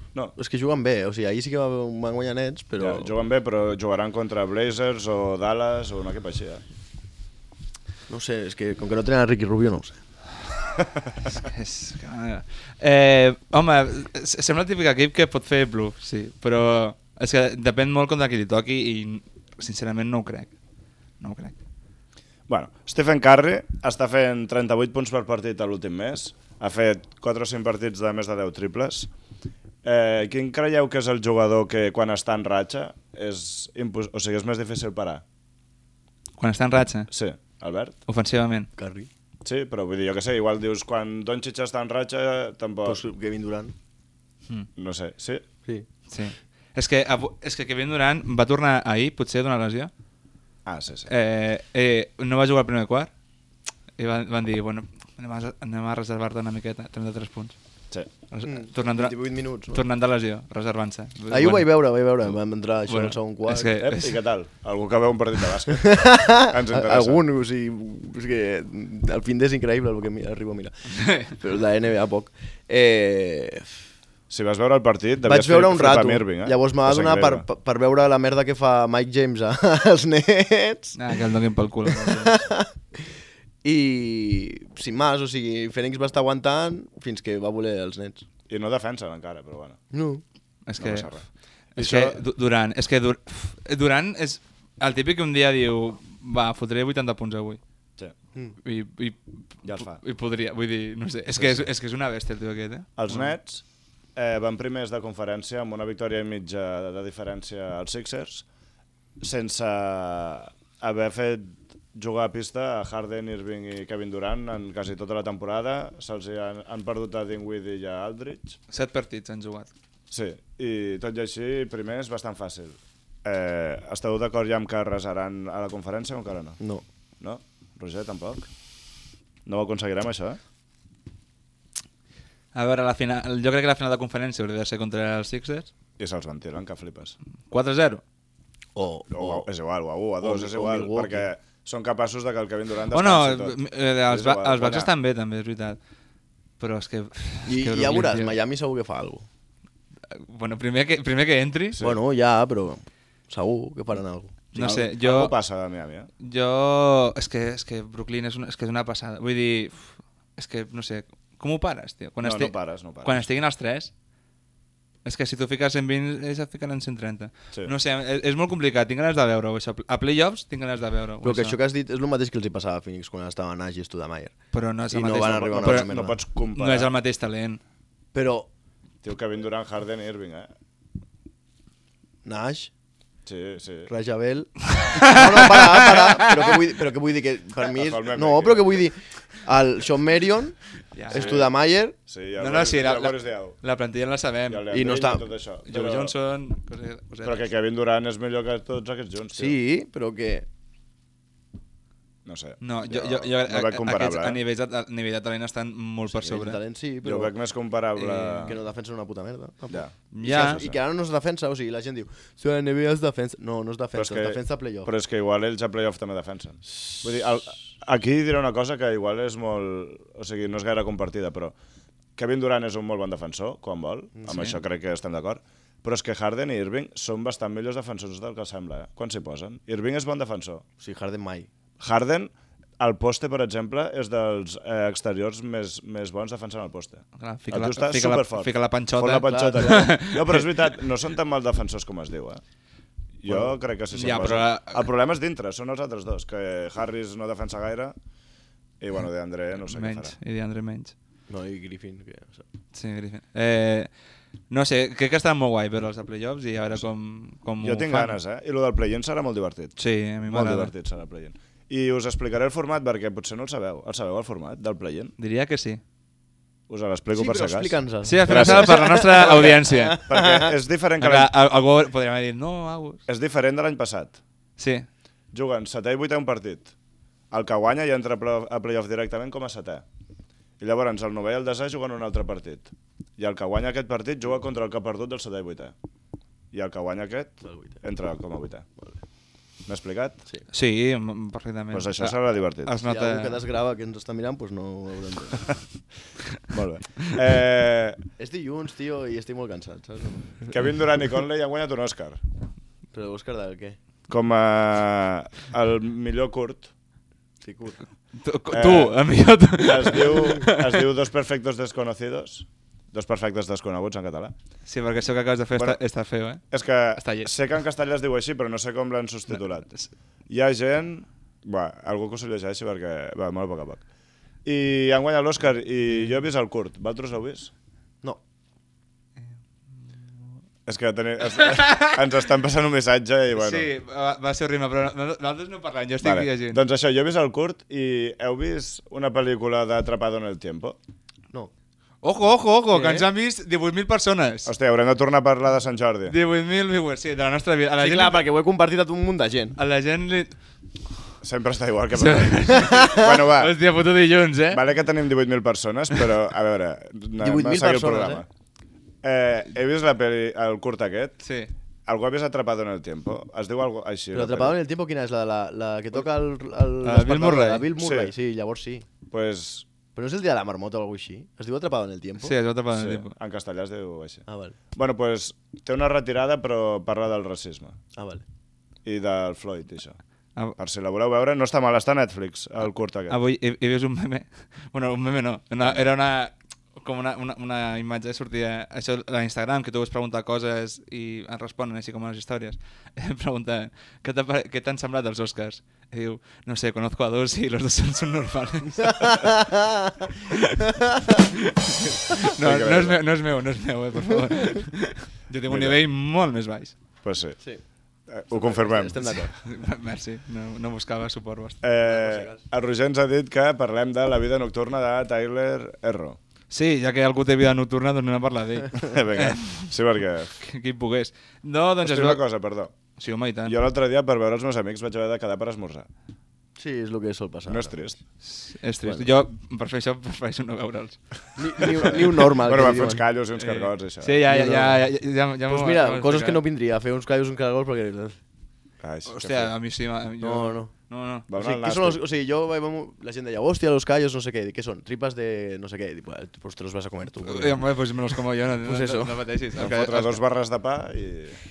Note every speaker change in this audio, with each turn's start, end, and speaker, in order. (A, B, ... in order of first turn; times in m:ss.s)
0:00.4-0:03.1 A
0:02.8-0:06.6 B
0:08.1-0:10.0 A
0:11.4-0:20.5 C
0:21.2-0:21.5 C
0:22.5-0:29.1 B
0:29.8-0:35.2 B
0:36.4-0:37.1 C
0:37.1-0:38.0 B
0:38.1-0:38.7 C
0:38.8-0:39.1 A
0:39.4-0:43.0 B
0:42.8-0:43.7 A
0:44.8-0:45.4 B
0:46.1-0:49.9 C
0:50.6-0:51.1 B
0:51.1-0:53.1 C
0:54.0-0:57.5 C
0:58.3-0:59.2 C
0:58.4-0:59.8 A
0:59.7-1:01.7 C
1:01.3-1:03.7 A
1:02.9-1:04.2 C
1:03.8-1:07.2 B
1:05.8-1:13.7 A
1:11.0-1:11.3 C
1:14.3-1:17.4 B
1:15.2-1:21.0 A
1:21.0-1:22.4 C
1:22.0-1:22.7 A
1:23.6-1:28.2 A
1:28.5-1:29.8 B
1:29.9-1:30.2 A
1:30.7-1:31.2 C
1:30.8-1:32.2 B
1:31.8-1:37.6 C
1:38.6-1:43.3 C
1:39.6-1:40.0 B
1:41.4-1:41.6 B
1:43.0-1:43.6 B
1:44.2-1:48.5 B
1:49.2-1:58.6 B
1:58.7-1:59.7 C
2:00.1-2:06.6 B
2:07.2-2:08.5 B
2:09.5-2:10.4 B
2:12.5-2:15.7 C
2:16.0-2:17.2 B
2:17.5-2:18.0 C
2:18.8-2:19.5 A
2:19.1-2:24.9 B
2:20.2-2:21.3 A
2:22.9-2:25.8 C
2:26.6-2:28.3 C
2:27.5-2:29.2 A
2:30.1-2:31.8 C
2:31.7-2:32.0 B
2:31.8-2:34.3 A
2:34.5-2:35.3 C
2:34.6-2:36.1 B
2:36.2-2:43.9 C
2:42.2-2:43.2 B
2:45.0-2:51.6 C
2:51.2-2:54.3 A
2:54.5-2:55.9 C
2:54.9-2:56.2 A
2:55.5-2:56.9 B
2:56.5-2:57.6 C
2:58.1-2:58.5 A
2:59.0-3:00.5 B
3:02.2-3:02.7 A
3:03.2-3:03.9 B
3:03.9-3:10.6 A
3:04.7-3:06.6 C
3:07.6-3:08.9 B
3:11.0-3:11.4 C
3:11.1-3:12.0 A
3:11.1-3:11.5 B
3:12.1-3:13.6 B
3:12.4-3:14.7 C
3:14.5-3:16.1 B
3:14.7-3:15.3 A
3:15.7-3:17.5 C
3:17.2-3:19.6 B
3:19.3-3:20.5 A
3:22.2-3:24.4 B
3:22.6-3:26.6 C
3:26.1-3:27.3 A
3:27.0-3:28.5 B
3:28.0-3:28.5 C
3:28.4-3:34.9 A
3:29.7-3:30.8 B
3:30.1-3:30.6 C
3:34.0-3:41.5 B
3:42.2-3:50.6 B
3:44.3-3:44.6 C
3:50.8-3:51.5 A
3:51.8-4:02.4 B
3:57.2-4:00.5 C
3:59.2-3:59.9 A
4:03.2-4:08.0 B
4:03.9-4:04.8 C
4:08.8-4:10.1 B
4:09.6-4:10.9 C
4:11.3-4:12.4 A
4:12.7-4:13.9 C
4:14.5-4:18.2 C
4:17.6-4:25.1 B
4:19.8-4:20.7 C
4:25.2-4:25.8 C
4:26.7-4:31.3 B
4:27.1-4:30.5 A
4:28.0-4:30.0 C
4:31.0-4:33.0 C
4:33.1-4:34.2 B
4:34.6-4:34.9 C
4:35.3-4:36.7 B
4:37.3-4:39.8 B
4:40.6-4:45.8 B
4:46.5-4:48.7 B
4:47.4-4:47.8 A
4:49.6-4:50.2 B
4:50.5-4:53.4 C
4:51.7-4:52.8 B
4:52.8-4:55.5 A
4:56.5-4:58.0 B
4:58.2-5:00.5 A
5:00.5-5:02.2 B
5:02.9-5:03.8 A
5:04.1-5:06.7 B
5:07.4-5:07.8 A
5:08.2-5:10.8 C
5:08.5-5:09.0 B
5:09.6-5:14.4 B
5:14.6-5:17.3 C
5:16.5-5:19.7 B
5:20.3-5:23.8 B
5:24.4-5:27.5 B
5:30.6-5:33.7 B
5:31.4-5:32.0 C
5:33.4-5:36.6 C
5:36.0-5:40.8 B
5:42.0-5:44.5 C
5:42.7-5:43.1 A
5:44.4-5:46.1 B
5:46.1-5:48.2 C
5:47.8-5:49.6 A
5:49.6-5:50.3 C
5:51.2-5:53.5 B
5:51.9-5:54.6 C
5:52.6-5:53.0 A
5:54.5-5:58.3 B
5:57.2-5:58.2 A
5:59.0-6:01.2 B
6:01.2-6:01.5 C
6:01.9-6:04.6 B
6:04.1-6:08.9 A
6:06.8-6:07.7 C
6:07.8-6:08.1 B
6:09.1-6:09.6 B
6:10.0-6:12.3 A
6:12.2-6:13.1 C
6:12.7-6:17.8 B
6:14.3-6:14.5 A
6:18.0-6:18.2 A
6:18.8-6:20.0 B
6:20.6-6:23.2 B
6:23.1-6:39.3 C
6:39.0-6:39.9 A
6:40.3-6:40.6 C
6:41.2-6:46.8 C
6:42.4-6:43.0 B
6:45.5-6:45.8 B
6:47.0-6:47.4 B
6:48.1-6:49.0 B
6:48.3-6:49.3 A
6:49.3-6:51.6 C
6:51.6-6:56.2 B
6:51.9-6:52.4 A
6:56.5-6:59.7 C
6:58.8-7:00.3 B
7:00.4-7:02.2 C
7:01.8-7:02.8 B
7:03.0-7:03.6 C
7:03.4-7:05.9 B
7:06.6-7:07.8 A
7:07.5-7:08.0 B
7:08.2-7:11.8 C
7:11.4-7:13.0 A
7:11.8-7:14.2 B
7:13.4-7:16.4 C
7:14.2-7:14.9 A
7:15.5-7:18.2 A
7:18.8-7:19.5 B
7:19.0-7:21.2 C
7:20.2-7:20.7 A
7:21.3-7:22.0 B
7:21.3-7:27.6 A
7:27.2-7:30.2 C
7:28.6-7:29.2 A
7:29.6-7:31.4 B